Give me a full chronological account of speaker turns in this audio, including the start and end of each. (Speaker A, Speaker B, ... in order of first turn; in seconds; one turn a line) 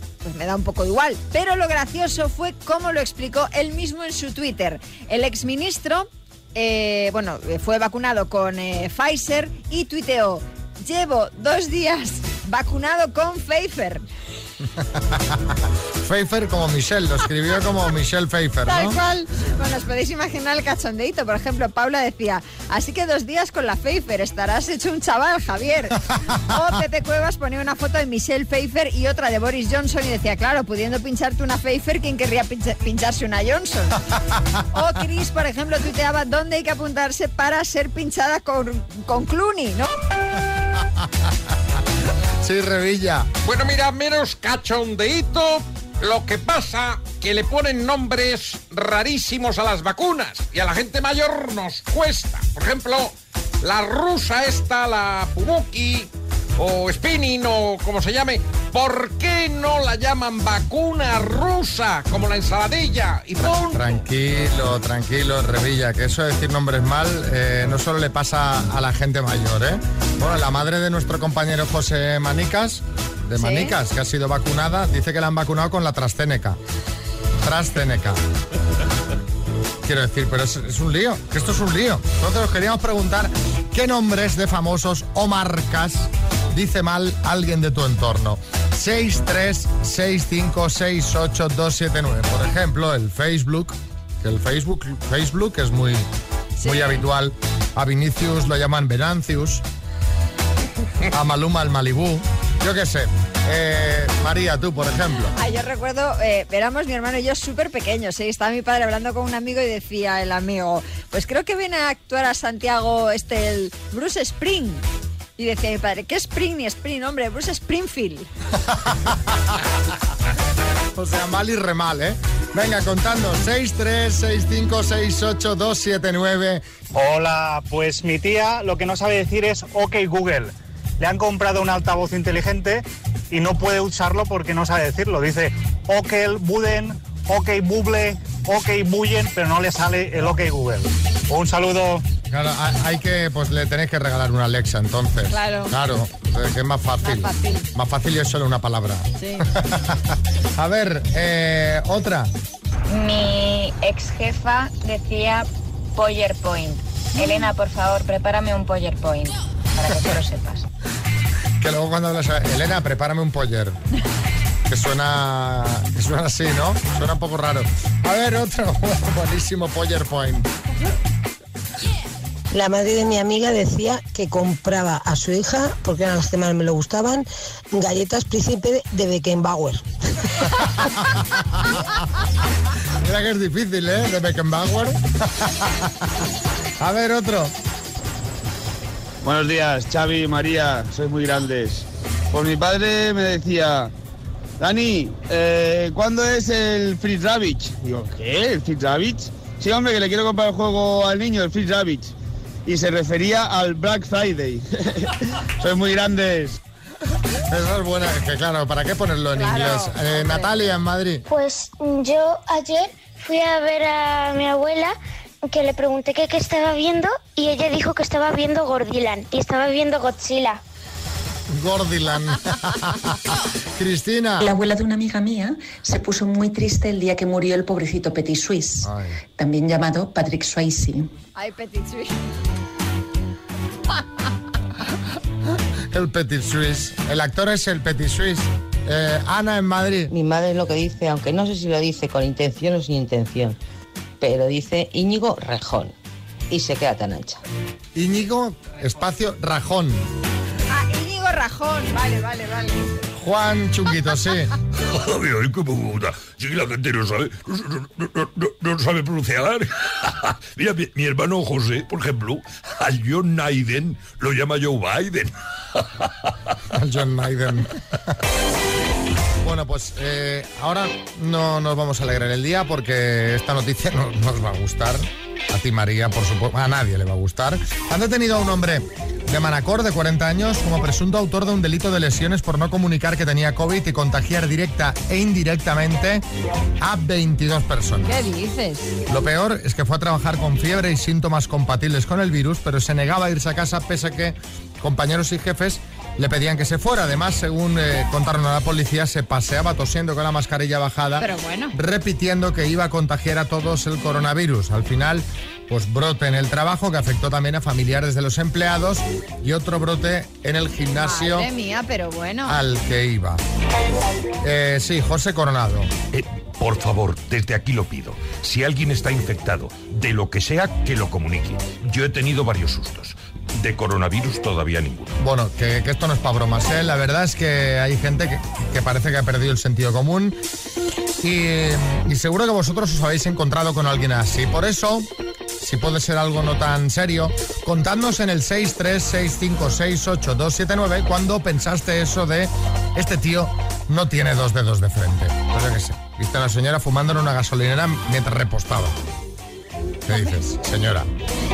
Speaker A: 0.2-14.0
Speaker B: 15.1-15.4
Speaker B: 16.0-19.0
Speaker A: 18.7-34.0
Speaker B: 34.4-34.6
Speaker A: 34.7-39.9
Speaker B: 42.4-43.3
Speaker C: 43.4-64.0
Speaker B: 63.4-76.6
Speaker A: 73.4-73.8
Speaker B: 77.4-78.2
Speaker B: 79.8-96.1
Speaker A: 96.6-97.0
Speaker B: 96.6-99.6
Speaker B: 101.1-105.3
Speaker A: 105.4-114.8
Speaker A: 115.4-118.3
Speaker B: 118.7-119.2
Speaker B: 121.0-126.6
Speaker D: 127.0-142.0
Speaker B: 142.3-150.0
Speaker A: 145.3-145.7
Speaker A: 147.0-147.7
Speaker A: 149.2-149.5
Speaker B: 150.6-152.3
Speaker E: 152.9-160.7
Speaker A: 157.2-157.5
Speaker B: 161.6-163.8
Speaker B: 164.7-170.5
Speaker F: 172.5-179.8
Speaker B: 180.5-182.0
Speaker B: 183.0-185.9
Speaker B: 186.8-187.5
Speaker G: 189.3-191.8
Speaker G: 192.4-193.9
Speaker G: 194.7-202.0
Speaker G: 202.7-204.6
Speaker G: 205.6-206.5
Speaker B: 207.5-211.2
Speaker A: 209.3-210.5
Speaker H: 211.3-220.6
Speaker B: 221.5-223.1
Speaker B: 223.8-224.5
Speaker I: 224.4-231.1
Speaker B: 228.8-229.2
Speaker A: 231.4-232.2
Speaker B: 235.9-240.1
Speaker J: 240.1-242.8
Speaker G: 243.1-243.5
Speaker G: 244.6-245.1
Speaker B: 248.0-250.1
Speaker A: 250.7-253.0
Speaker B: 253.2-254.5
Speaker K: 254.8-266.1
Speaker B: 266.8-267.8
Speaker B: 269.4-286.2
Speaker B: 286.8-288.2
Speaker A: 288.1-288.9
Speaker B: 289.1-311.5
Speaker A: 301.2-301.7
Speaker A: 311.0-312.6
Speaker B: 312.5-313.4
Speaker B: 314.4-315.9
Speaker K: 316.1-325.1
Speaker B: 325.2-330.4
Speaker B: 331.2-335.1
Speaker B: 335.6-348.9
Speaker B: 350.1-351.1